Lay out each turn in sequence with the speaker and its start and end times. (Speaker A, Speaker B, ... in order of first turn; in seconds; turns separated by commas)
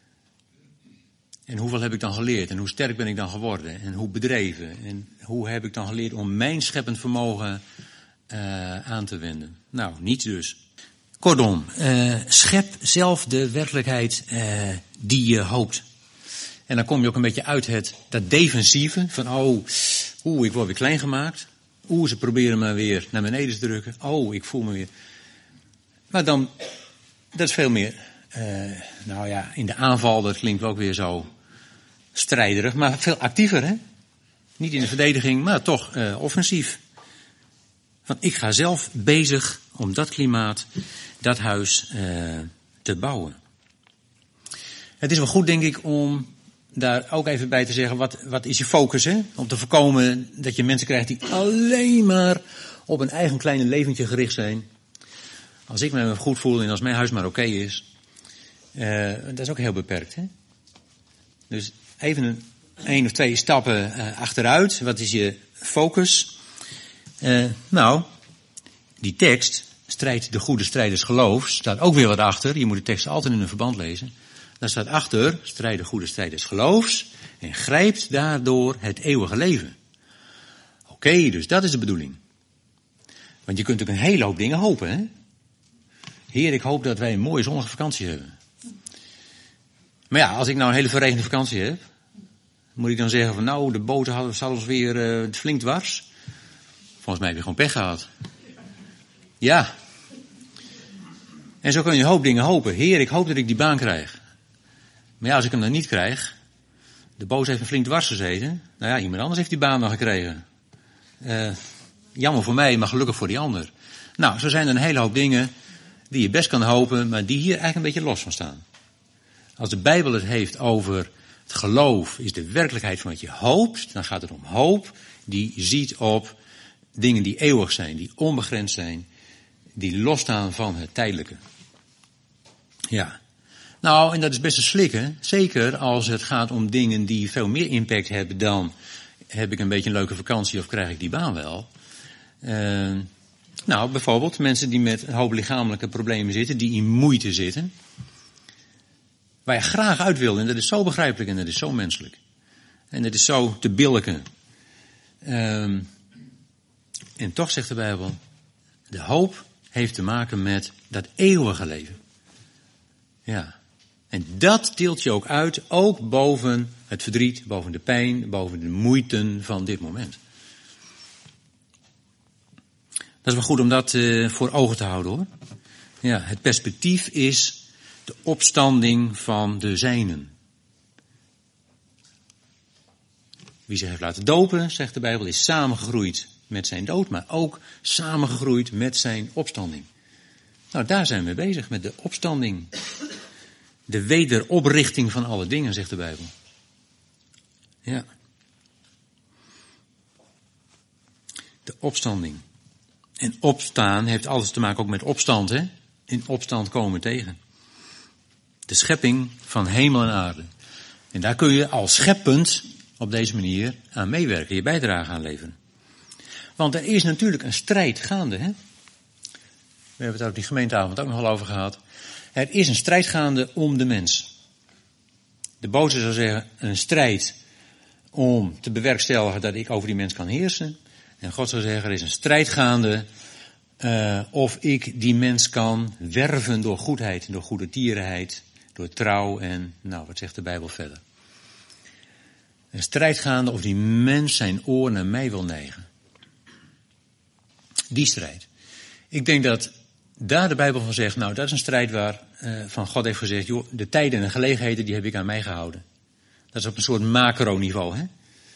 Speaker A: 1.5-7.6, Speaker A: 8.3-10.6, Speaker A: 11.2-15.8, Speaker A: 16.7-24.9, Speaker A: 26.1-26.6, Speaker A: 27.3-31.3, Speaker A: 32.1-33.8, Speaker A: 34.6-36.8, Speaker A: 38.1-40.7, Speaker A: 41.2-43.4, Speaker A: 45.0-54.6, Speaker A: 55.7-57.8, Speaker A: 58.7-60.3, Speaker A: 61.5-66.4, Speaker A: 67.2-68.1, Speaker A: 69.0-79.8, Speaker A: 80.9-82.2, Speaker A: 83.5-85.1, Speaker A: 86.3-88.3, Speaker A: 90.1-91.8, Speaker A: 92.8-96.1, Speaker A: 97.0-98.1, Speaker A: 99.4-99.7, Speaker A: 101.6-104.2, Speaker A: 105.2-106.3, Speaker A: 107.2-110.4, Speaker A: 111.2-111.6, Speaker A: 112.1-115.5, Speaker A: 116.1-118.6, Speaker A: 119.6-126.4, Speaker A: 127.0-129.1, Speaker A: 129.8-131.4, Speaker A: 132.9-133.2, Speaker A: 133.8-138.7, Speaker A: 139.3-141.7, Speaker A: 142.4-143.1, Speaker A: 143.7-147.7, Speaker A: 149.5-152.2, Speaker A: 152.9-154.2, Speaker A: 155.2-155.9, Speaker A: 157.2-158.2, Speaker A: 158.9-162.0, Speaker A: 163.3-163.6, Speaker A: 164.1-170.2, Speaker A: 173.2-175.3, Speaker A: 176.0-180.3, Speaker A: 183.7-189.9, Speaker A: 190.7-192.7, Speaker A: 193.9-196.3, Speaker A: 201.6-202.4, Speaker A: 203.2-207.4, Speaker A: 208.7-210.5, Speaker A: 211.1-215.6, Speaker A: 216.6-218.5, Speaker A: 220.0-221.8, Speaker A: 222.3-224.3, Speaker A: 225.6-227.4, Speaker A: 228.1-233.1, Speaker A: 233.8-241.0, Speaker A: 242.7-245.8, Speaker A: 247.9-248.5, Speaker A: 249.1-255.8, Speaker A: 256.5-258.1